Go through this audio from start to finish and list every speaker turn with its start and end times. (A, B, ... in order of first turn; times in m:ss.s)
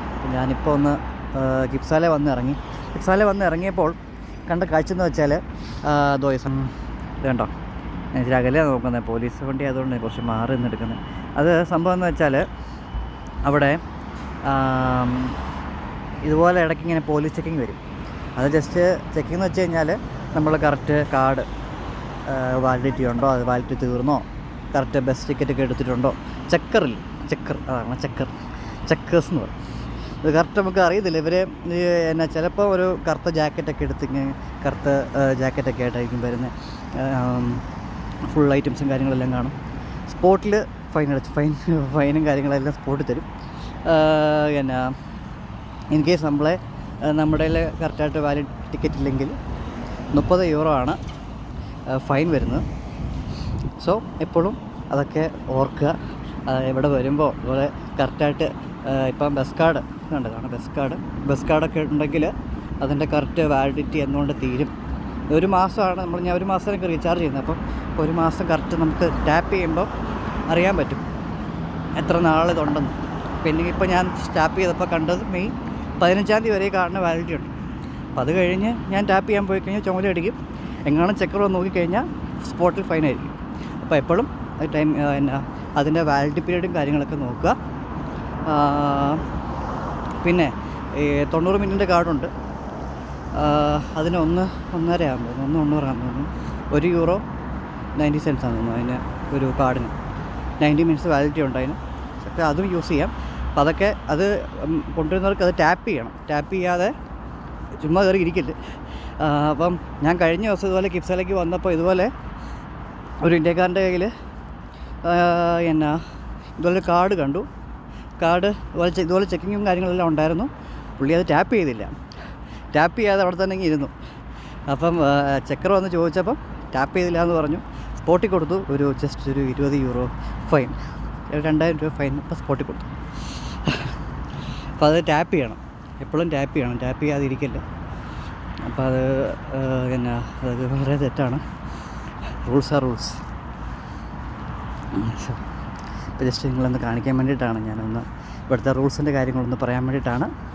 0:00.2-0:07.5 A
0:08.1-0:12.5 A
0:13.4-0:13.8 A
0:14.4-0:15.4 A
0:16.2-0:17.8 A
0:18.4-0:21.5 A
0:22.2-0:28.3 A
0:28.8-0:29.5 A
0:30.2-0:37.6 A
0:38.2-0:39.6 A
0:40.1-0:43.3 A
0:43.8-0:44.9 A
0:45.9-0:49.4 A
0:50.1-0:51.0 A
0:51.9-0:52.6 A
0:53.8-1:04.7 A
1:05.3-1:09.9 A
1:10.5-1:11.0 A
1:12.0-1:17.5 A
1:18.1-1:27.6 A
1:28.4-1:29.2 A
1:30.2-1:32.3 A
1:33.3-1:37.2 A
1:38.0-1:39.9 A
1:40.6-1:46.9 A
1:47.8-1:48.6 A
1:49.2-1:52.1 A
1:53.2-1:54.1 A
1:55.0-1:56.0 A
1:56.6-1:57.5 A
1:58.2-2:01.9 A
2:02.7-2:03.9 A
2:04.7-2:10.8 A
2:11.3-2:14.0 A
2:14.8-2:17.6 A
2:18.6-2:21.4 A
2:22.3-2:23.2 A
2:24.9-2:25.4 A
2:26.2-2:30.3 A